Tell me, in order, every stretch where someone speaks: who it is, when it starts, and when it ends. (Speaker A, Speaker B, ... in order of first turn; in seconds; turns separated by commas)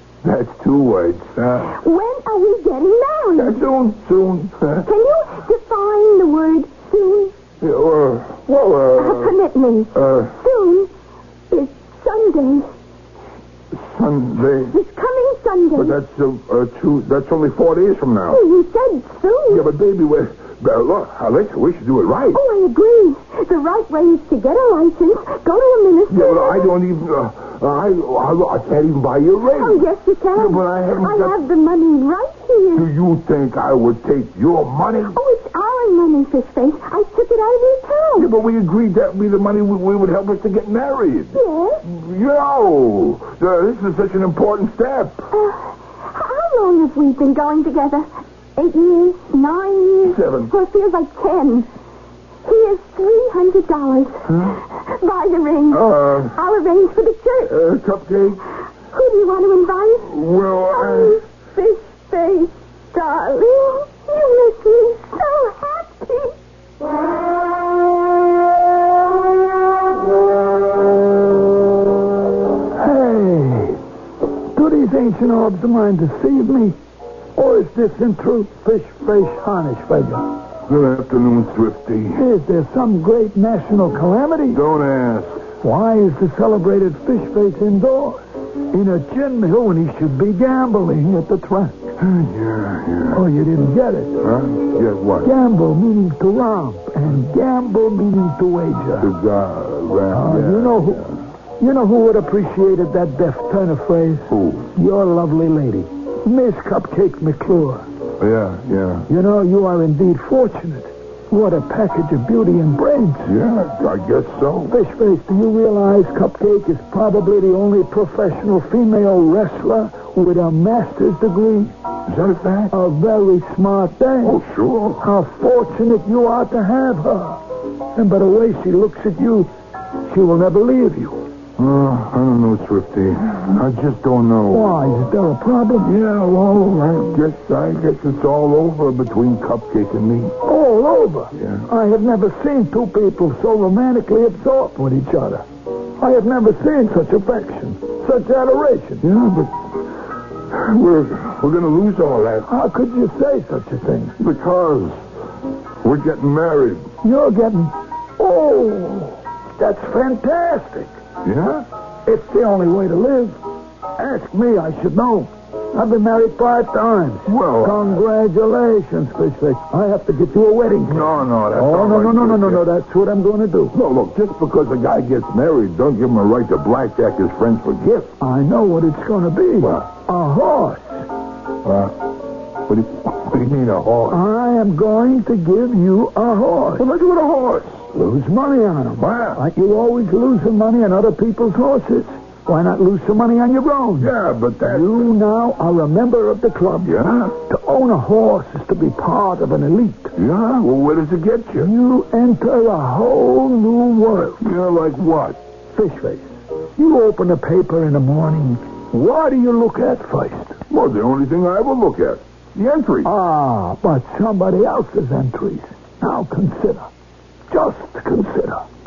Speaker A: 0.2-1.8, Speaker B: 1.7-3.6, Speaker A: 3.3-4.9, Speaker B: 4.8-7.3, Speaker A: 7.6-9.3, Speaker B: 8.9-10.9, Speaker A: 9.9-10.3, Speaker B: 11.5-12.7, Speaker A: 13.7-14.7, Speaker B: 14.7-16.0, Speaker A: 15.7-18.4, Speaker B: 18.3-19.7, Speaker A: 19.5-22.4, Speaker B: 22.3-26.8, Speaker A: 26.1-31.4, Speaker B: 29.5-32.9, Speaker A: 32.7-35.2, Speaker B: 35.1-38.3, Speaker A: 38.2-45.2, Speaker B: 41.3-41.8, Speaker B: 45.3-51.7, Speaker A: 50.0-50.5, Speaker B: 52.4-57.5, Speaker A: 54.3-54.6, Speaker A: 55.7-56.4, Speaker A: 57.5-58.4, Speaker B: 58.9-60.1, Speaker A: 60.0-61.2, Speaker B: 60.7-66.3, Speaker C: 72.7-73.8, Speaker C: 74.5-76.8, Speaker C: 77.3-80.3, Speaker A: 80.7-82.2, Speaker C: 82.1-84.6, Speaker A: 84.5-85.4, Speaker C: 85.6-91.9, Speaker A: 92.0-93.2, Speaker C: 93.1-94.3, Speaker A: 94.2-95.3, Speaker C: 95.2-99.1, Speaker A: 99.0-101.2, Speaker C: 100.1-101.1, Speaker C: 101.6-107.8, Speaker A: 104.3-104.7, Speaker A: 108.2-109.1, Speaker C: 109.1-113.3, Speaker A: 113.2-114.7, Speaker C: 114.7-121.7, Speaker A: 122.1-122.7, Speaker C: 122.7-124.4, Speaker A: 124.2-125.0, Speaker C: 125.0-127.4, Speaker C: 127.9-129.5, Speaker C: 130.0-131.2, Speaker A: 131.6-134.8, Speaker C: 134.5-136.0, Speaker A: 135.8-140.3, Speaker C: 140.4-145.4, Speaker A: 141.3-141.6, Speaker C: 146.0-149.0, Speaker A: 149.0-149.7, Speaker A: 150.5-152.5, Speaker C: 152.4-154.1, Speaker A: 154.2-155.0, Speaker A: 155.8-156.9, Speaker C: 157.0-160.9, Speaker A: 161.2-161.6, Speaker C: 162.1-163.4, Speaker C: 164.0-173.7, Speaker A: 167.2-168.0, Speaker A: 170.9-172.6, Speaker A: 173.7-178.1, Speaker C: 178.2-181.1, Speaker A: 179.6-179.9, Speaker A: 181.6-182.0, Speaker A: 182.7-184.2, Speaker C: 184.1-186.8, Speaker A: 186.8-187.8, Speaker C: 187.9-194.1, Speaker A: 189.0-189.4, Speaker A: 194.0-195.1, Speaker C: 194.7-200.1, Speaker A: 196.8-197.3, Speaker A: 200.2-201.7, Speaker C: 201.6-204.4, Speaker A: 204.4-205.4, Speaker C: 205.7-210.6, Speaker A: 210.7-213.1, Speaker C: 213.0-216.9, Speaker C: 217.5-218.6